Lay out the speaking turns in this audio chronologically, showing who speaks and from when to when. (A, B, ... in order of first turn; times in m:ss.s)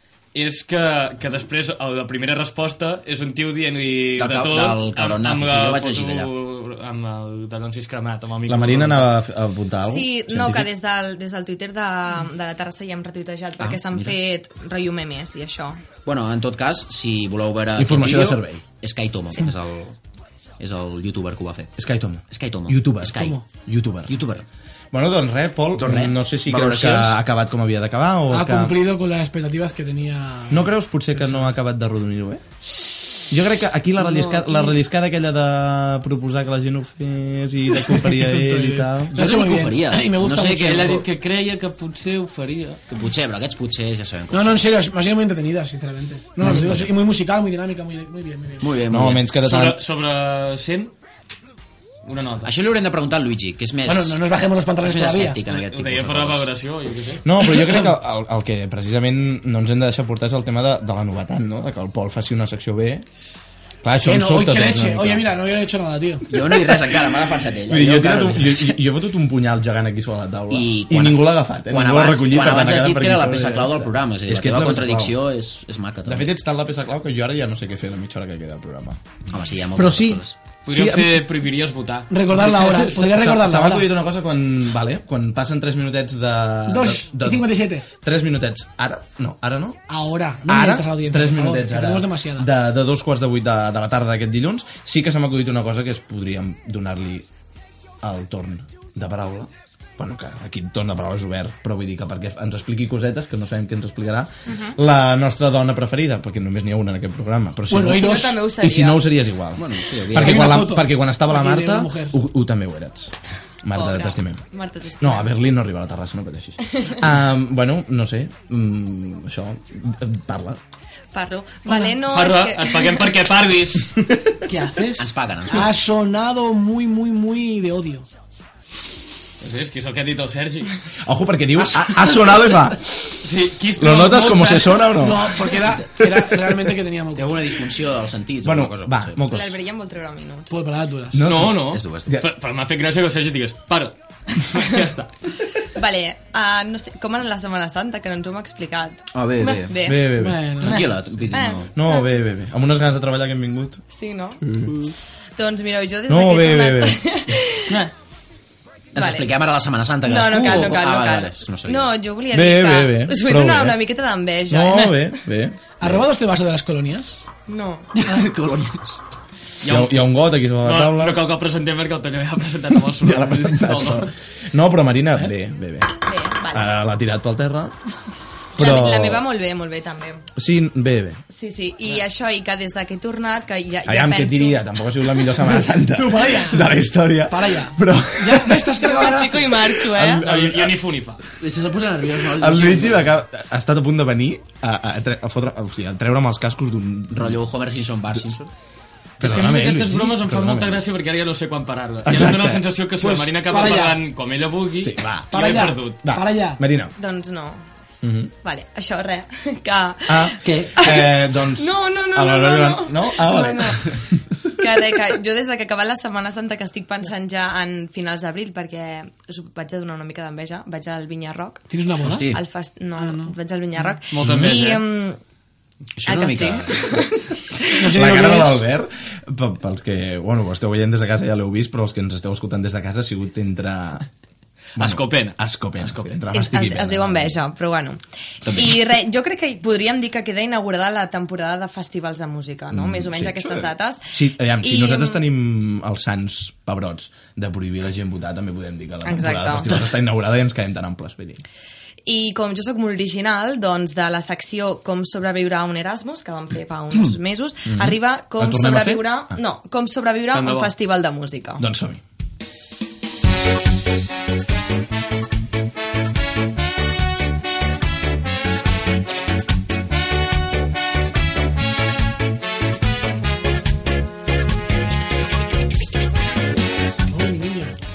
0:00.3-0:09.1 A
0:04.2-0:06.3 B
0:08.4-0:10.7 C
0:09.8-0:15.8 D
0:13.6-0:14.2 B
0:16.0-0:20.0 B
0:17.8-0:18.6 C
0:20.6-0:21.7 B
0:21.8-0:24.1 C
0:22.3-0:23.4 B
0:24.1-0:24.4 B
0:24.9-0:28.8 C
0:25.8-0:27.2 B
0:28.3-0:31.5 E
0:30.5-0:32.4 C
0:33.3-0:39.2 C
0:34.0-0:34.7 E
0:37.9-0:41.0 E
0:39.1-0:41.0 B
0:40.6-0:42.8 A
0:42.9-0:44.6 B
0:44.3-0:48.7 E
0:46.4-0:46.9 B
0:48.6-0:49.3 B
0:48.9-0:49.8 C
0:49.4-0:50.9 A
0:52.0-0:52.5 A
0:52.4-0:54.2 B
0:53.8-0:55.4 E
0:54.8-0:56.5 B
0:55.4-0:57.2 A
0:57.2-1:03.0 C
0:57.6-0:57.8 E
1:03.8-1:05.3 C
1:04.0-1:06.2 E
1:06.3-1:08.8 B
1:07.7-1:15.2 C
1:10.5-1:16.3 B
1:16.0-1:19.0 C
1:19.3-1:20.4 B
1:19.8-1:21.2 C
1:20.6-1:23.1 A
1:22.1-1:23.9 E
1:23.0-1:29.8 C
1:26.7-1:27.8 E
1:29.9-1:32.5 E
1:30.4-1:37.3 C
1:38.0-1:54.4 C
1:44.5-1:44.7 D
1:47.7-1:48.4 E
1:47.9-1:49.0 D
1:49.6-1:50.6 B
1:50.1-1:52.2 E
1:53.7-1:55.3 D
1:55.0-2:00.6 C
1:56.7-1:57.0 D
2:01.1-2:03.0 D
2:02.0-2:03.9 A
2:04.0-2:04.3 C
2:04.4-2:08.1 E
2:05.0-2:05.8 B
2:09.4-2:10.7 A
2:11.0-2:13.2 C
2:11.6-2:12.1 B
2:13.2-2:14.9 A
2:13.8-2:16.2 C
2:15.0-2:17.4 E
2:17.1-2:19.2 B
2:18.4-2:19.6 C
2:19.3-2:20.6 D
2:20.5-2:21.2 E
2:21.1-2:22.3 C
2:21.2-2:25.1 A
2:21.6-2:22.1 B
2:25.7-2:30.1 D
2:29.1-2:29.8 B
2:29.8-2:30.6 C
2:30.1-2:30.9 E
2:30.6-2:31.7 B
2:31.3-2:32.0 D
2:31.7-2:33.8 C
2:33.9-2:34.4 D
2:34.4-2:34.8 C
2:35.4-2:37.8 D
2:36.1-2:37.0 C
2:38.9-2:39.3 D
2:38.9-2:41.9 B
2:40.0-2:45.1 D
2:42.3-2:43.8 C
2:44.5-2:46.0 C
2:45.8-2:47.2 E
2:47.5-2:47.9 D
2:48.1-2:48.8 B
2:49.6-2:54.1 A
2:49.6-2:51.2 C
2:53.0-2:55.9 C
2:56.0-2:56.7 D
2:56.5-2:57.8 C
2:58.6-2:59.2 C
2:58.6-3:00.2 D
3:00.4-3:01.2 C
3:01.3-3:04.6 D
3:03.8-3:08.8 C
3:05.4-3:06.7 E
3:07.2-3:09.7 E
3:08.8-3:10.3 D
3:09.7-3:10.8 C
3:10.1-3:11.2 A
3:11.4-3:13.1 B
3:12.2-3:17.4 C
3:17.1-3:18.5 B
3:18.1-3:18.4 C
3:19.2-3:20.8 C
3:19.2-3:26.0 A
3:22.0-3:22.7 C
3:23.0-3:24.0 E
3:24.8-3:25.4 C
3:25.3-3:26.6 E
3:26.0-3:26.9 C
3:27.0-3:27.6 D
3:28.0-3:28.3 C
3:28.4-3:33.9 D
3:30.1-3:34.3 C
3:30.4-3:30.7 B
3:34.6-3:41.6 D
3:41.7-3:42.3 E
3:42.0-3:42.4 B
3:42.3-3:45.2 D
3:43.0-3:43.9 E
3:44.1-3:44.8 A
3:44.2-3:44.6 C
3:46.0-3:47.0 B
3:46.0-3:47.8 D
3:47.7-3:48.6 E
3:47.9-3:54.1 C
3:54.8-3:56.1 A
3:54.8-3:57.4 C
3:56.3-4:05.2 D
4:02.7-4:11.4 C
4:09.0-4:09.8 D
4:12.0-4:21.6 D
4:17.7-4:19.4 C
4:20.3-4:20.7 A
4:21.6-4:22.0 C
4:37.1-4:37.7 E